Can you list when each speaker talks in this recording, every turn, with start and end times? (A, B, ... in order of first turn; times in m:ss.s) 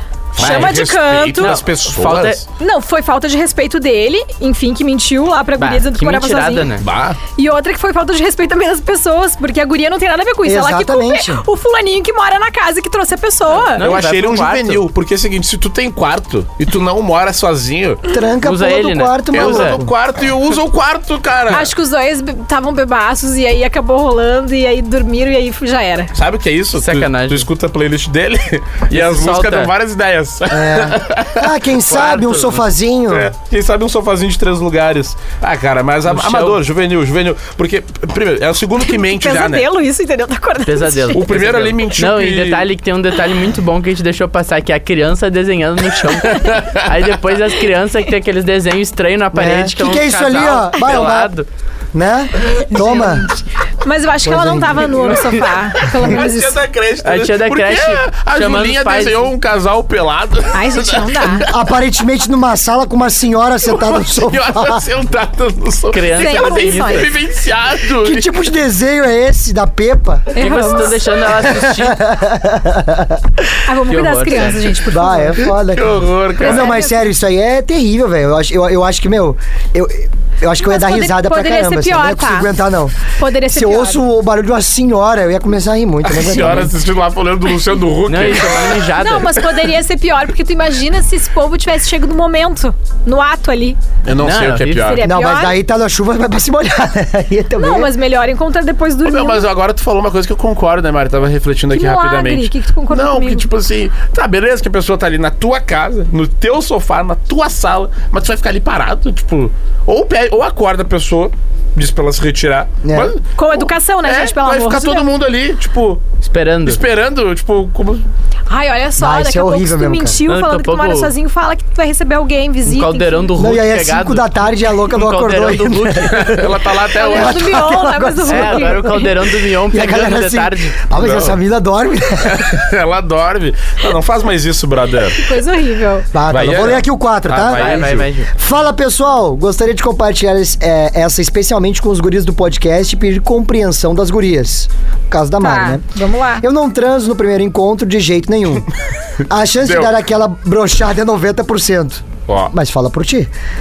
0:00.3-0:01.6 A
0:00.3-0:02.4 B
0:00.4-0:00.8 C
0:01.4-0:02.4 C
0:02.6-0:06.7 A
0:05.6-0:06.8 C
0:06.8-0:07.2 B
0:07.4-0:13.8 A
0:10.4-0:11.4 D
0:13.5-0:14.8 C
0:13.8-0:18.0 B
0:18.1-0:19.9 D
0:18.4-0:19.8 C
0:19.3-0:21.7 B
0:21.5-0:26.1 A
0:26.1-0:31.5 B
0:26.7-0:27.5 C
0:28.9-0:29.7 C
0:30.5-0:33.3 D
0:31.8-0:32.6 C
0:33.1-0:39.7 B
0:36.1-0:36.6 C
0:38.8-0:41.2 A
0:40.6-0:51.5 C
0:41.1-0:42.6 B
0:46.3-0:46.8 B
0:49.3-0:51.3 D
0:51.9-0:53.3 D
0:52.9-0:53.2 A
0:53.8-0:56.6 A
0:54.2-0:54.9 D
0:55.8-1:01.5 B
0:57.0-0:59.3 C
1:00.5-1:01.4 A
1:01.3-1:04.8 D
1:03.7-1:08.3 B
1:05.9-1:07.1 C
1:06.1-1:07.1 A
1:08.0-1:10.3 D
1:10.3-1:11.0 A
1:10.4-1:12.0 C
1:11.3-1:13.2 D
1:13.6-1:15.5 A
1:13.9-1:14.6 C
1:14.9-1:26.7 D
1:15.7-1:16.8 B
1:16.4-1:17.0 A
1:20.6-1:22.5 A
1:23.1-1:24.0 A
1:26.0-1:28.9 B
1:28.0-1:29.4 C
1:29.0-1:33.8 A
1:34.0-1:35.0 B
1:34.2-1:35.0 C
1:34.8-1:35.6 A
1:35.0-1:37.9 D
1:37.6-1:39.4 A
1:39.0-1:56.1 B
1:41.7-1:43.4 A
1:52.8-1:53.1 D
1:53.4-1:55.0 A
1:56.2-1:56.8 C
1:56.6-1:58.0 B
1:58.5-2:03.3 A
1:59.0-2:00.2 D
2:00.3-2:01.1 C
2:02.6-2:06.4 C
2:03.4-2:08.9 D
2:06.1-2:07.6 B
2:06.9-2:09.1 A
2:08.2-2:10.8 C
2:09.7-2:12.6 D
2:10.9-2:11.4 B
2:12.2-2:15.3 B
2:15.1-2:16.1 A
2:16.1-2:25.8 D
2:16.3-2:18.1 B
2:17.3-2:18.3 C
2:25.4-2:26.4 A
2:26.4-2:28.7 D
2:29.3-2:33.3 D
2:29.6-2:29.9 B